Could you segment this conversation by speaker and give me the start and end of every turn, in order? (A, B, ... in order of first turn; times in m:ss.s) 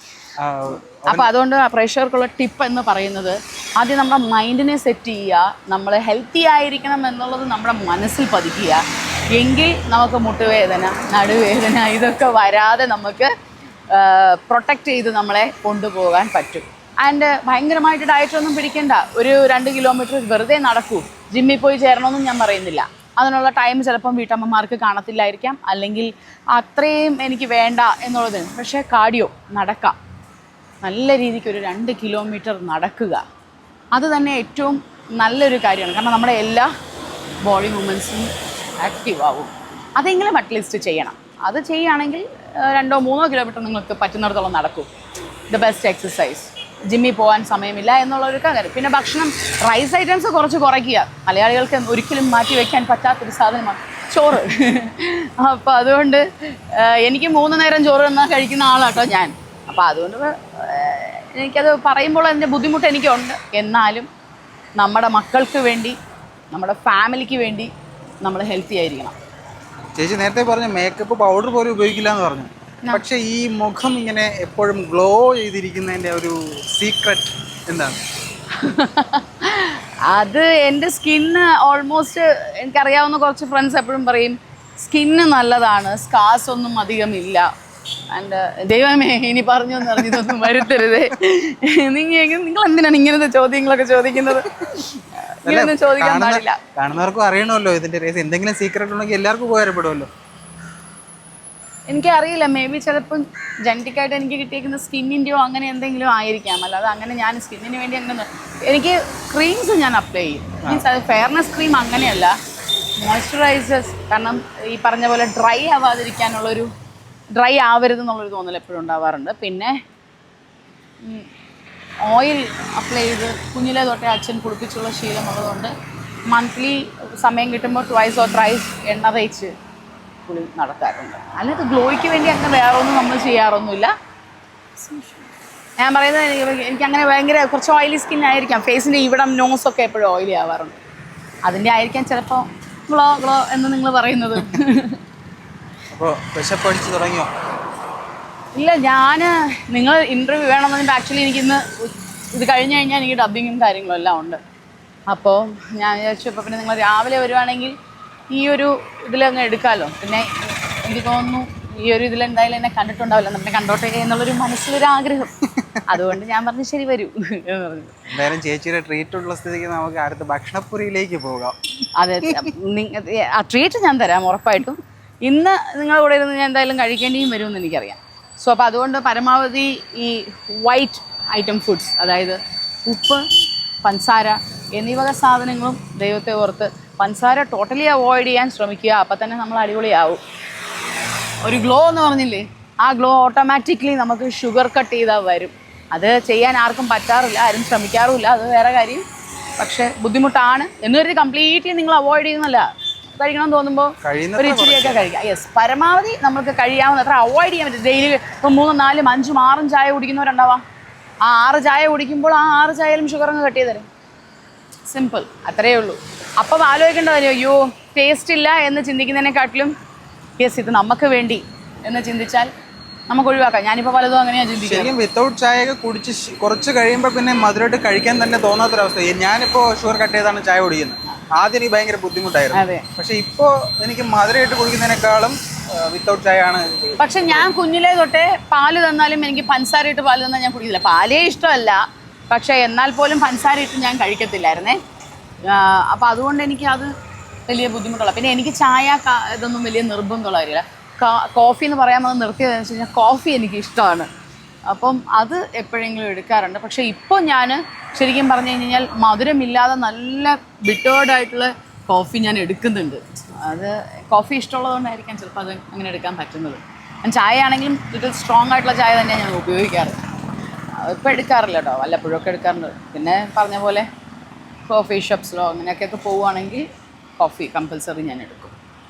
0:00.4-0:01.3 A
0:01.1-0:08.8 B
0:09.3-0:13.3 B
0:13.9-0:30.0 B
0:30.8-0:33.2 B
0:33.9-0:36.7 B
0:37.4-0:44.9 B
0:45.5-1:04.1 B
1:04.8-1:06.0 B
1:06.5-1:07.7 B
1:08.2-1:09.2 B
1:10.0-1:18.0 A
1:18.5-1:27.5 B
1:28.1-1:36.6 B
1:35.5-1:40.1 A
1:41.9-1:52.4 B
1:53.0-1:56.7 B
1:57.3-1:59.7 B
2:02.0-2:05.7 B
2:06.3-2:09.5 B
2:10.3-2:13.9 B
2:14.8-2:15.2 B
2:15.8-2:20.8 B
2:21.4-2:25.0 B
2:25.9-2:27.3 A
2:28.6-2:34.4 B
2:35.1-2:37.7 B
2:38.3-2:48.0 B
2:48.1-2:51.6 A
2:52.0-3:03.3 B
3:03.8-3:10.2 B
3:11.4-3:19.0 B
3:19.6-3:30.6 B
3:24.0-3:25.0 A
3:31.2-3:33.9 B
3:34.9-3:39.7 B
3:40.4-3:42.5 B
3:43.1-3:44.9 B
3:44.6-3:57.5 A
3:52.5-3:52.9 B
3:57.0-4:04.8 B
4:05.5-4:06.9 B
4:07.5-4:14.1 B
4:14.7-4:30.0 B
4:30.8-4:33.9 B
4:34.7-4:36.6 B
4:37.2-4:38.5 B